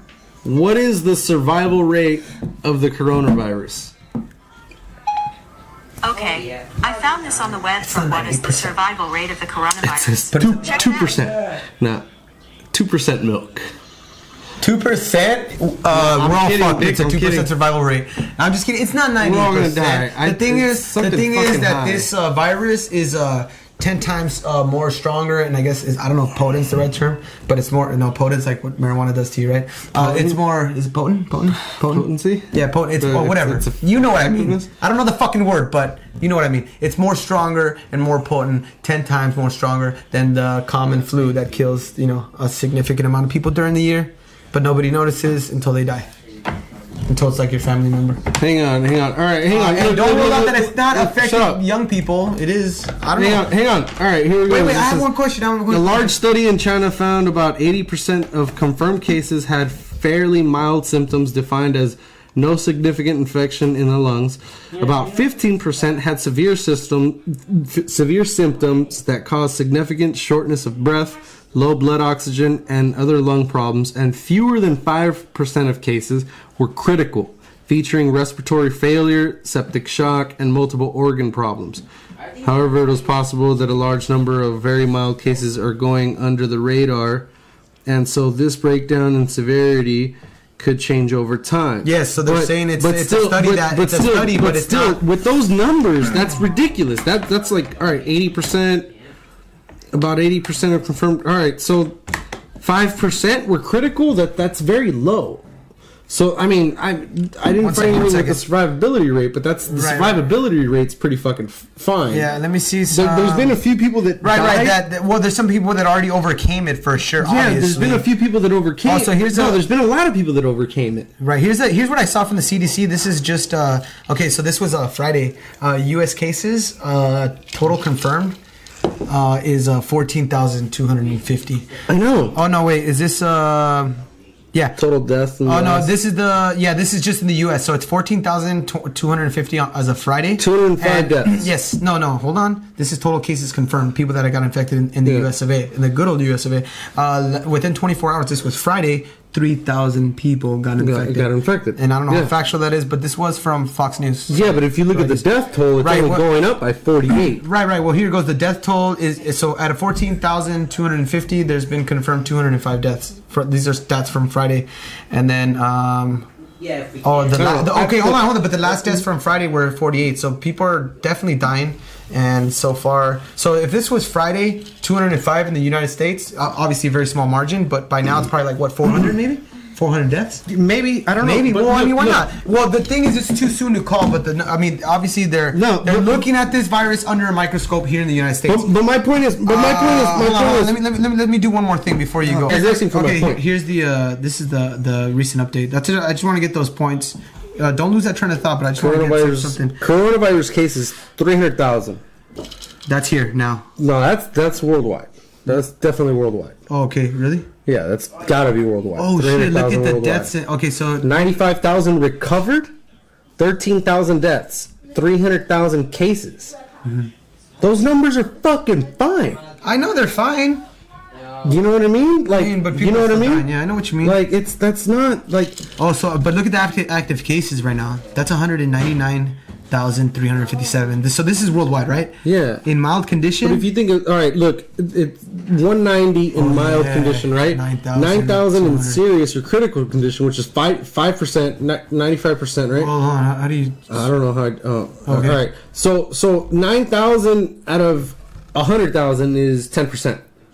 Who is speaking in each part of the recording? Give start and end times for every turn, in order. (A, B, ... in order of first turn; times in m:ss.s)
0:00.4-0:03.9 A
0:06.0-0:11.2 B
0:07.8-0:08.8 C
0:09.9-0:12.0 A
0:10.3-0:10.9 C
0:12.7-0:13.7 A
0:14.6-0:46.1 C
0:15.9-0:17.5 A
0:19.2-0:22.1 A
0:30.0-0:30.4 A
0:31.8-0:34.7 A
0:47.1-0:48.2 C
0:48.3-0:51.6 A
0:49.5-0:53.5 C
0:53.2-0:55.1 A
0:54.5-0:56.2 C
0:55.7-1:21.8 A
1:22.4-1:27.3 A
1:27.9-1:38.9 A
1:31.8-1:35.0 C
1:39.9-1:42.0 A
1:42.6-1:45.4 A
1:46.1-1:52.3 A
1:47.6-1:48.4 C
1:49.7-1:50.2 C
1:52.1-1:53.6 C
1:52.9-1:54.8 A
1:54.2-1:58.1 C
1:57.2-2:01.1 A
1:58.8-1:59.6 C
2:01.2-2:08.4 C
2:09.1-2:11.7 C
2:11.9-2:12.4 A
2:12.3-2:14.0 C
2:14.8-2:15.9 A
2:15.4-2:35.3 C
2:20.4-2:21.5 A
2:30.8-2:32.3 A
2:34.3-2:37.4 A
2:35.8-2:36.3 C
2:37.2-2:46.3 C
2:47.0-3:00.5 C
2:47.3-2:48.4 A
3:00.5-3:02.2 A
3:01.2-3:08.7 C
3:05.5-3:06.2 A
3:08.5-3:10.8 A
3:09.4-3:19.8 C
3:12.3-3:13.4 A
3:18.8-3:22.0 A
3:22.9-3:23.7 C
3:23.8-3:26.6 A
3:26.7-3:27.5 C
3:27.7-3:30.3 A
3:29.0-3:31.4 C
3:31.0-3:32.7 A
3:33.4-3:36.6 A
3:36.8-3:37.1 C
3:37.6-3:39.4 A
3:39.6-3:40.6 C
3:41.4-3:43.5 A
3:42.3-3:44.2 C
3:44.0-3:45.7 A
3:45.8-3:53.7 C
3:52.2-3:52.6 A
3:53.4-4:02.9 A
3:56.4-3:59.0 C
4:02.8-4:04.1 C
4:03.9-4:10.2 A
4:05.1-4:05.4 C